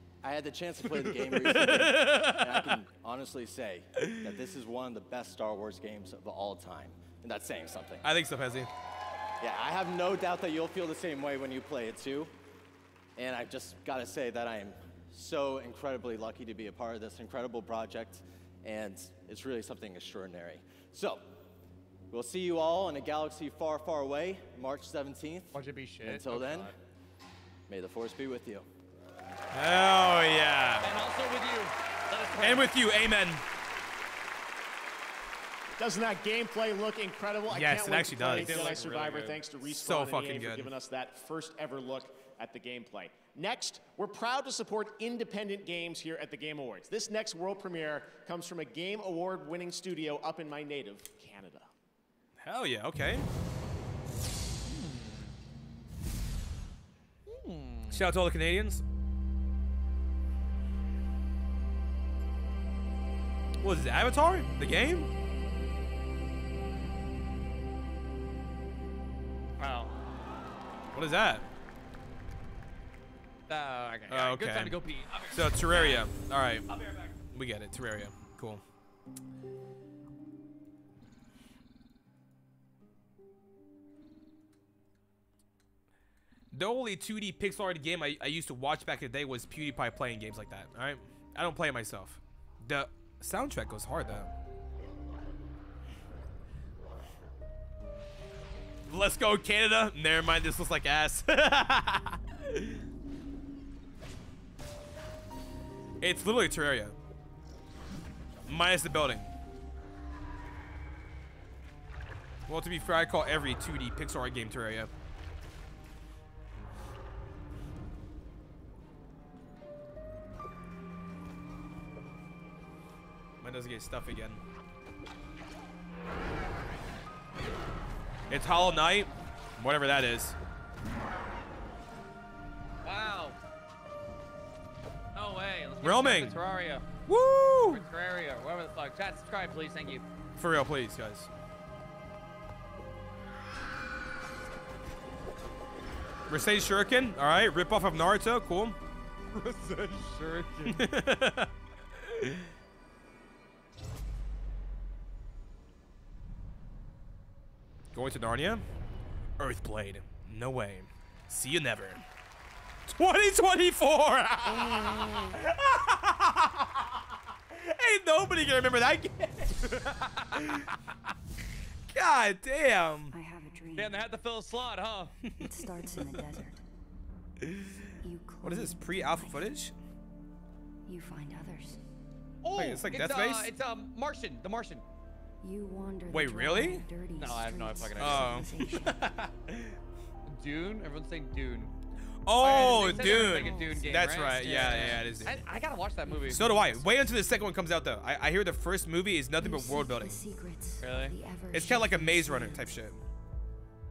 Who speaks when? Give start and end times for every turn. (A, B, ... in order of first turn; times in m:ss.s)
0:00.2-0:08.0 A
0:01.4-0:02.7 B
0:08.0-0:08.7 B
0:09.4-0:12.3 A
0:13.2-0:21.3 A
0:22.1-0:26.7 A
0:25.5-0:26.7 C
0:27.7-0:28.7 A
0:29.5-0:30.9 B
0:30.8-0:32.7 C
0:32.4-0:33.4 B
0:35.8-0:51.7 D
0:37.5-0:38.7 B
0:38.3-0:39.4 C
0:39.6-0:40.7 B
0:52.4-0:53.2 B
0:54.6-0:55.3 C
0:57.2-0:58.0 C
0:57.9-0:58.8 B
1:03.6-1:05.1 B
1:09.6-1:09.9 C
1:10.9-1:11.4 B
1:13.5-1:16.1 C
1:14.1-1:14.8 B
1:15.3-1:16.7 B
1:17.2-1:18.6 B
1:26.5-1:34.3 B
1:38.9-1:42.2 B
1:46.0-1:46.9 B
1:48.5-1:49.3 B
1:52.5-1:54.9 B
2:03.4-2:04.4 B
2:08.3-2:10.4 B
2:12.8-2:13.4 C
2:15.1-2:16.9 C
2:15.8-2:16.4 B
2:17.1-2:17.8 B
2:17.7-2:20.0 C
2:20.4-2:21.3 B
2:26.3-2:28.8 B
2:29.3-2:30.8 C
2:30.7-2:31.5 B
2:37.9-2:38.6 B
2:39.4-2:42.0 B
2:42.9-2:46.9 B
2:47.5-2:49.6 B
2:49.6-2:50.5 C
2:51.9-2:53.1 B
2:53.1-2:53.9 E
2:53.8-2:55.1 C
2:55.4-2:56.6 E
2:58.0-2:59.4 E
2:58.4-2:59.7 B
3:00.8-3:01.8 E
3:02.4-3:04.8 C
3:02.5-3:03.5 B
3:05.4-3:09.1 E
3:06.1-3:06.8 B
3:07.2-3:08.5 C
3:08.0-3:09.7 B
3:10.3-3:11.7 C
3:12.2-3:15.4 B
3:12.4-3:16.5 C
3:12.5-3:14.1 E
3:14.7-3:15.1 E
3:16.3-3:20.2 B
3:19.4-3:22.7 E
3:20.8-3:21.1 C
3:21.5-3:23.0 B